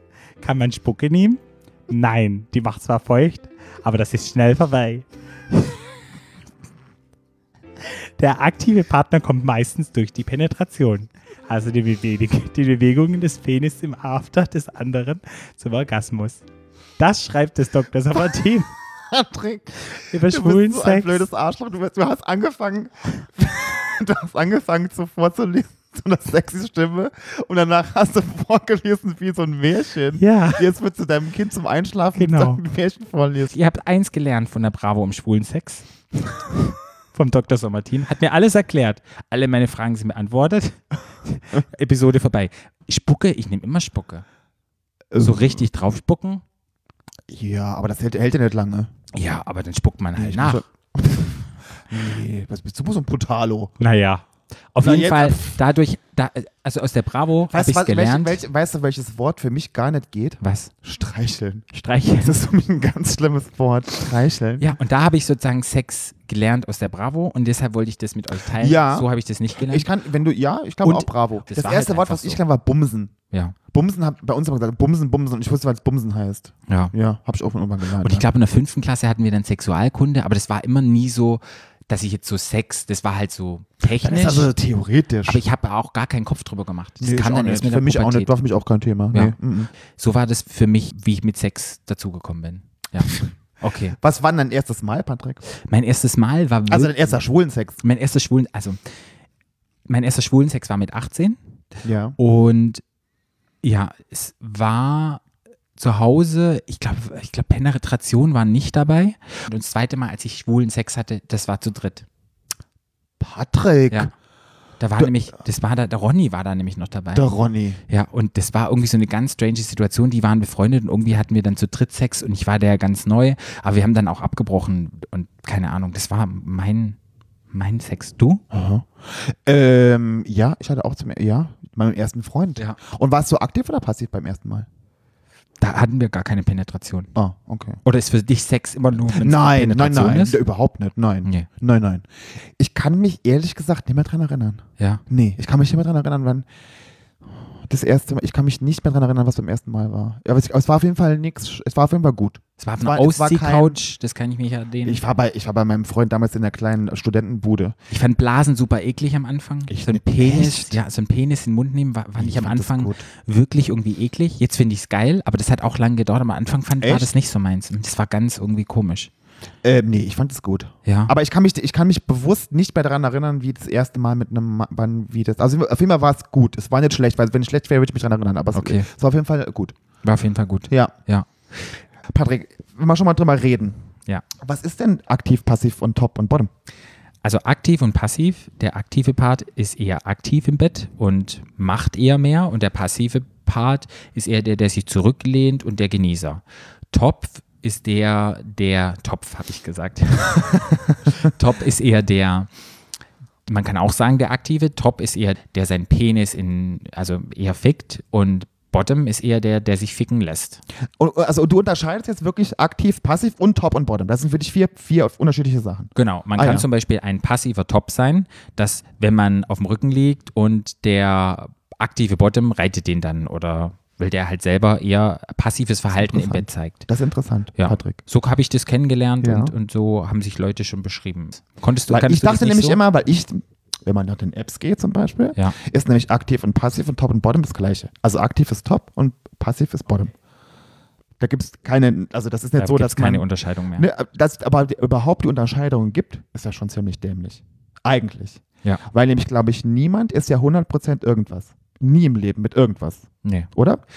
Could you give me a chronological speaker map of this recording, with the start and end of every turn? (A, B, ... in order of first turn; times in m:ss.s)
0:00.4-0:05.8 A
0:07.8-0:16.4 A
0:17.0-0:18.7 A
0:19.1-0:33.6 B
0:20.0-0:21.3 A
0:30.2-0:30.7 A
0:32.1-0:32.6 A
0:33.5-0:44.2 A
0:45.1-0:45.6 B
0:45.2-0:46.4 A
0:47.3-0:48.9 B
0:49.1-0:50.6 A
0:50.2-0:53.7 B
0:53.8-0:58.4 A
0:54.8-0:55.6 B
0:57.5-1:04.7 B
1:00.4-1:00.7 A
1:01.7-1:02.4 A
1:04.6-1:09.9 A
1:08.6-1:13.1 B
1:10.8-1:12.4 A
1:13.3-1:13.6 A
1:13.7-1:18.3 B
1:16.7-1:16.9 A
1:18.0-1:24.5 A
1:24.0-1:25.4 B
1:25.3-1:28.3 A
1:27.0-1:29.7 B
1:29.9-1:34.0 A
1:34.0-1:35.4 B
1:35.5-1:37.2 A
1:36.7-1:37.8 B
1:37.8-1:38.8 A
1:39.9-1:41.4 A
1:41.8-1:42.2 B
1:42.2-1:42.8 A
1:43.6-1:45.2 A
1:45.8-1:52.1 A
1:53.2-1:54.1 B
1:54.8-1:57.3 A
1:57.1-1:57.8 B
1:57.9-2:07.0 A
2:07.5-2:08.4 A
2:08.5-2:14.7 B
2:15.6-2:17.1 A
2:17.2-2:17.8 B
2:17.8-2:20.4 A
2:19.1-2:22.0 B
2:22.6-2:26.5 B
2:27.7-2:33.8 B
2:32.6-2:35.0 A
2:34.8-2:37.8 B
2:37.9-2:49.1 A
2:39.7-2:40.8 B
2:42.2-2:43.0 B
2:46.8-2:47.1 B
2:49.6-2:59.8 B
2:50.8-2:51.1 A
2:58.5-2:58.9 A
3:00.0-3:01.3 A
3:00.7-3:00.9 B
3:02.1-3:03.8 B
3:04.4-3:06.5 B
3:07.2-3:22.5 A
3:20.9-3:21.2 B
3:23.5-3:30.6 A
3:31.0-3:36.6 B
3:36.0-3:46.9 A
3:46.0-3:48.0 B
3:47.6-3:52.8 A
3:49.2-3:49.5 B
3:51.9-4:00.1 B
4:01.2-4:13.8 B
4:02.6-4:03.9 A
4:13.2-4:13.5 A